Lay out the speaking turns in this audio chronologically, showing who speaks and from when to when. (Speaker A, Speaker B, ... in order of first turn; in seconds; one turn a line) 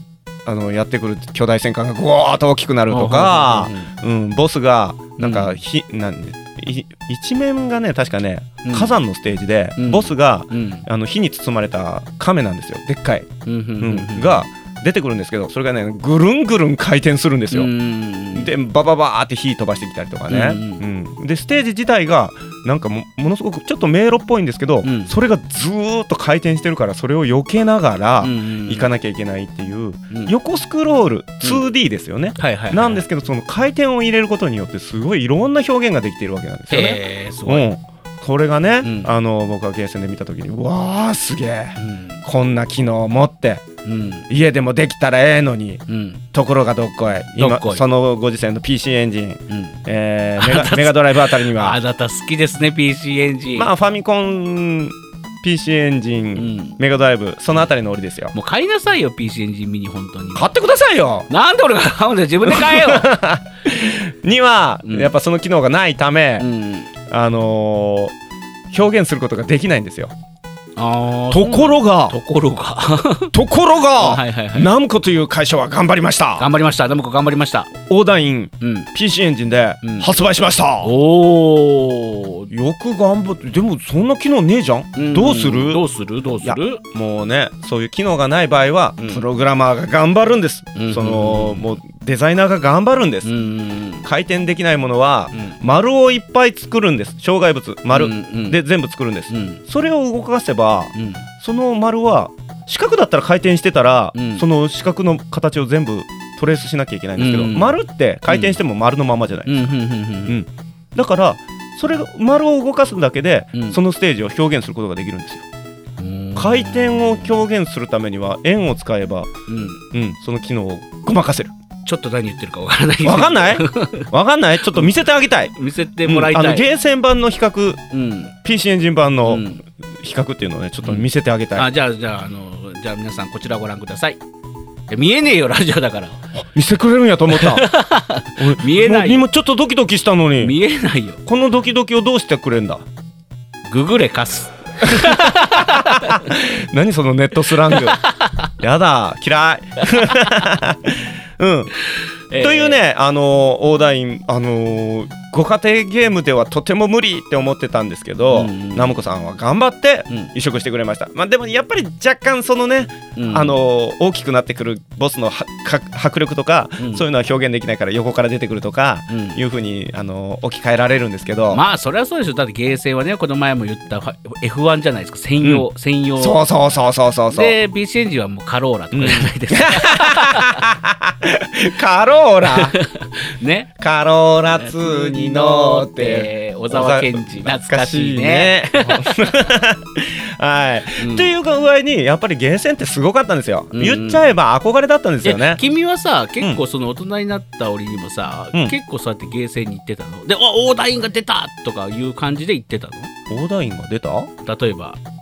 Speaker A: 0.5-13.3
Speaker B: 2.9-3.9
Speaker B: 5.2-5.5
Speaker B: 8.6-9.0
Speaker B: 9.8-10.8
Speaker B: 13.4-14.5
Speaker A: 13.8-17.7
Speaker B: 17.5-18.5
Speaker A: 18.3-43.6
Speaker B: 20.3-20.8
Speaker B: 24.8-25.1
Speaker B: 28.2-28.9
Speaker B: 32.4-33.0
Speaker B: 36.7-37.6
Speaker B: 38.8-39.1
Speaker B: 41.8-42.2
Speaker B: 43.8-44.3
Speaker A: 44.3-45.8
Speaker B: 45.9-46.2
Speaker A: 46.3-51.8
Speaker B: 47.4-47.8
Speaker B: 49.5-49.8
Speaker B: 50.4-53.7
Speaker A: 53.5-58.3
Speaker B: 56.4-56.8
Speaker B: 58.3-60.5
Speaker A: 60.3-61.3
Speaker B: 61.3-63.1
Speaker A: 62.4-66.5
Speaker B: 64.8-65.1
Speaker B: 66.4-66.9
Speaker A: 67.1-68.1
Speaker A: 68.7-70.1
Speaker B: 70.8-73.3
Speaker A: 71.3-72.1
Speaker A: 73.3-76.5
Speaker B: 74.0-74.7
Speaker B: 76.4-77.7
Speaker A: 77.8-80.9
Speaker B: 78.6-78.9
Speaker B: 79.8-80.1
Speaker B: 80.8-82.5
Speaker A: 82.5-85.8
Speaker B: 85.0-86.8
Speaker A: 86.4-93.3
Speaker B: 89.0-89.2
Speaker B: 90.7-91.7
Speaker B: 93.2-94.0
Speaker A: 94.0-109.7
Speaker B: 97.9-98.6
Speaker B: 99.3-99.6
Speaker B: 100.9-101.2
Speaker B: 104.1-104.4
Speaker B: 107.2-108.6
Speaker B: 109.5-110.4
Speaker A: 110.3-115.4
Speaker B: 113.5-113.8
Speaker B: 116.0-117.3
Speaker A: 116.3-119.3
Speaker B: 119.5-119.8
Speaker A: 119.9-121.5
Speaker B: 121.8-124.1
Speaker A: 123.0-127.8
Speaker B: 125.5-126.7
Speaker B: 127.9-128.3
Speaker A: 128.4-131.7
Speaker B: 129.2-129.6
Speaker B: 130.8-134.2
Speaker B: 134.9-136.2
Speaker A: 136.4-137.7
Speaker B: 137.3-139.2
Speaker A: 138.4-140.6
Speaker B: 140.4-141.2
Speaker A: 141.2-142.8
Speaker B: 143.7-146.3
Speaker A: 144.8-148.0
Speaker B: 147.7-148.5
Speaker A: 148.6-151.7
Speaker B: 149.9-150.6
Speaker B: 151.8-152.8
Speaker A: 152.4-171.6
Speaker B: 158.3-159.0
Speaker B: 160.1-160.3
Speaker B: 163.1-163.6
Speaker B: 166.8-167.0
Speaker B: 169.1-169.4
Speaker B: 171.5-176.4
Speaker A: 176.2-177.5
Speaker B: 177.3-180.6
Speaker A: 178.9-182.8
Speaker B: 182.4-183.7
Speaker A: 183.8-195.6
Speaker B: 184.5-189.2
Speaker B: 191.0-191.3
Speaker B: 193.7-194.2
Speaker B: 195.2-203.1
Speaker A: 203.3-204.3
Speaker B: 204.4-205.0